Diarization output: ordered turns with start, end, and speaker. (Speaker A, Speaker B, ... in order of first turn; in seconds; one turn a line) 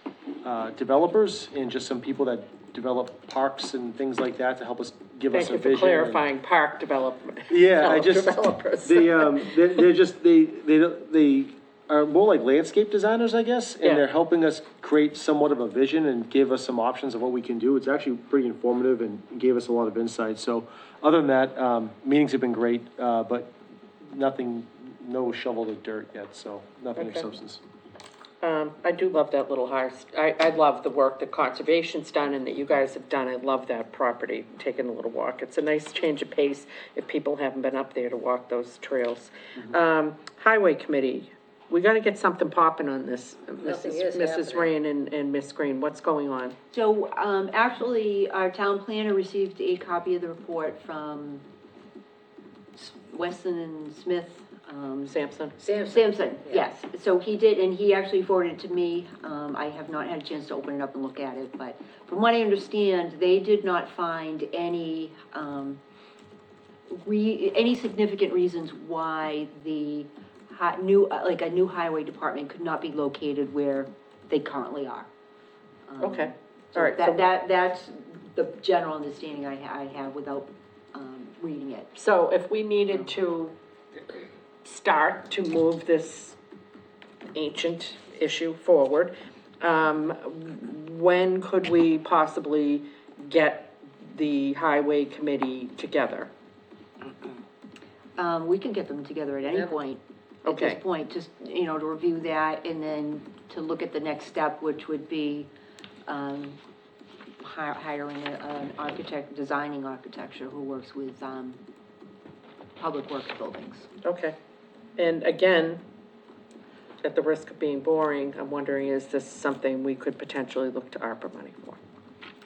Speaker A: 0.4-6.2
Speaker B: 5.3-9.8
Speaker A: 7.5-27.6
Speaker B: 26.9-27.2
Speaker B: 28.4-46.5
Speaker C: 43.6-44.7
Speaker D: 46.7-51.4
Speaker D: 52.7-55.1
Speaker B: 55.0-55.5
Speaker C: 55.6-56.7
Speaker D: 55.9-65.8
Speaker D: 66.9-75.1
Speaker D: 75.9-81.9
Speaker B: 76.0-77.2
Speaker B: 81.9-83.5
Speaker B: 84.6-86.4
Speaker B: 87.3-96.3
Speaker D: 98.2-105.5
Speaker B: 100.5-100.8
Speaker D: 106.1-106.6
Speaker D: 107.4-111.6
Speaker D: 112.8-113.9
Speaker B: 114.0-114.3
Speaker B: 115.0-115.8
Speaker B: 117.0-121.8